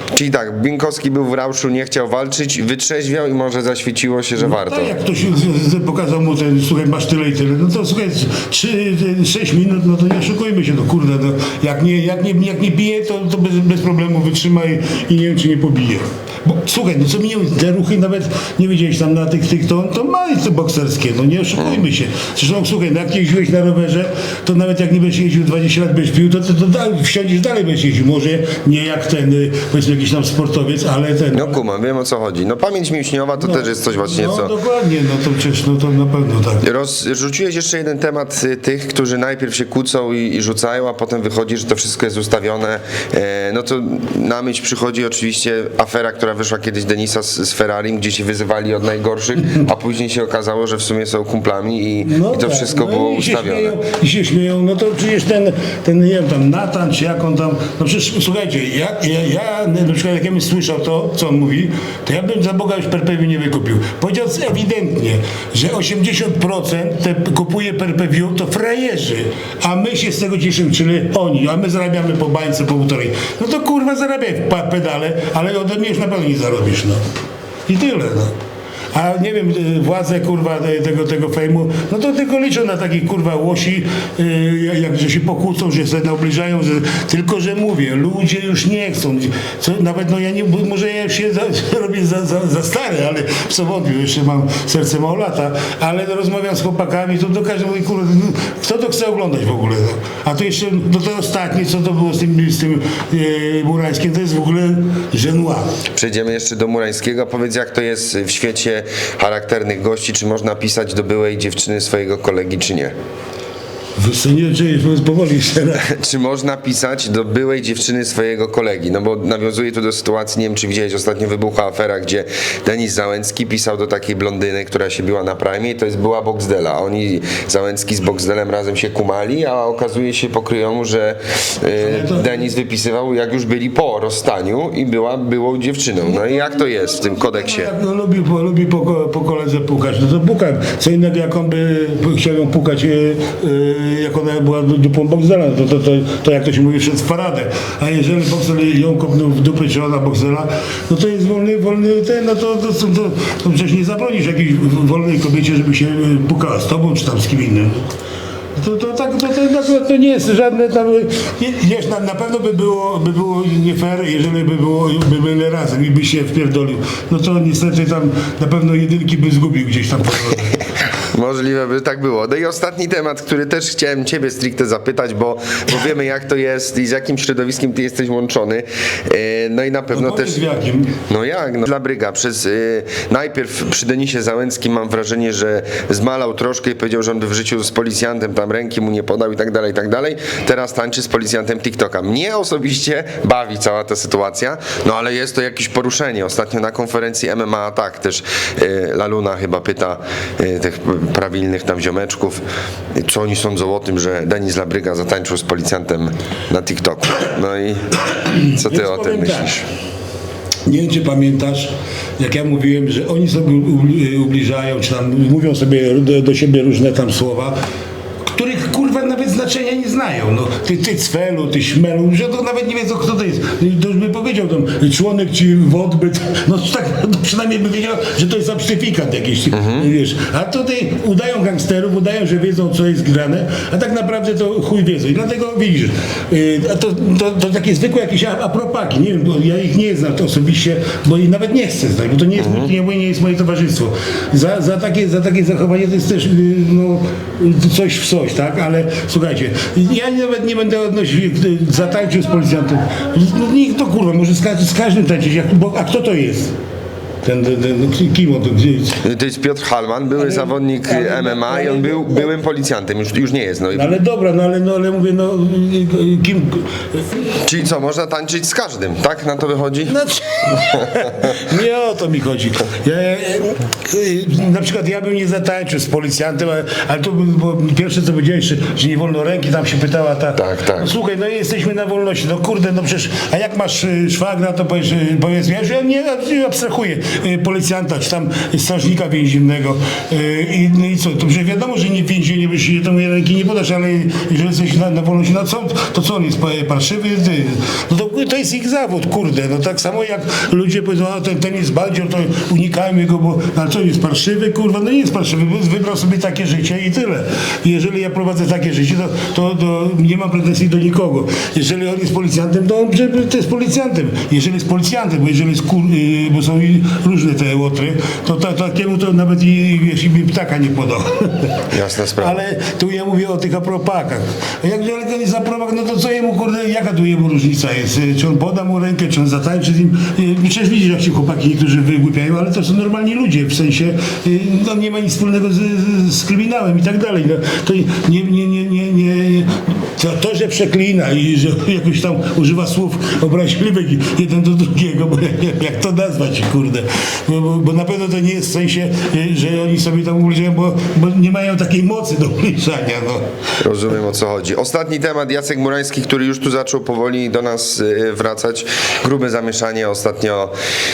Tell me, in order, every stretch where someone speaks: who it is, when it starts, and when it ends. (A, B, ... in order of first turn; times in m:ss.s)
0:00.1-0:04.9 A
0:04.4-0:31.6 B
0:21.6-0:21.8 A
0:31.3-0:34.5 A
0:33.4-0:36.6 B
0:36.6-0:53.8 A
0:52.0-1:17.0 B
1:17.7-1:18.3 B
1:18.9-1:45.7 B
1:45.9-1:52.9 A
1:54.0-1:55.9 B
1:55.8-2:17.7 A
2:11.8-2:12.4 B
2:16.0-2:37.9 B
2:38.6-2:50.6 B
2:51.0-3:00.4 A
2:59.9-3:00.9 B
3:01.1-3:22.4 A
3:23.0-3:28.0 A
3:28.4-3:29.6 B
3:28.5-3:29.6 A
3:30.6-3:37.6 B
3:38.3-4:16.5 B
3:49.5-3:49.9 A
4:02.4-4:02.7 A
4:17.2-4:19.0 B
4:19.0-4:24.0 A
4:20.2-4:22.3 B
4:23.7-4:27.2 B
4:27.4-4:30.0 A
4:29.8-5:53.2 B
4:30.6-4:31.3 A
4:40.4-4:40.9 A
5:21.7-5:22.4 A
5:53.6-6:00.5 A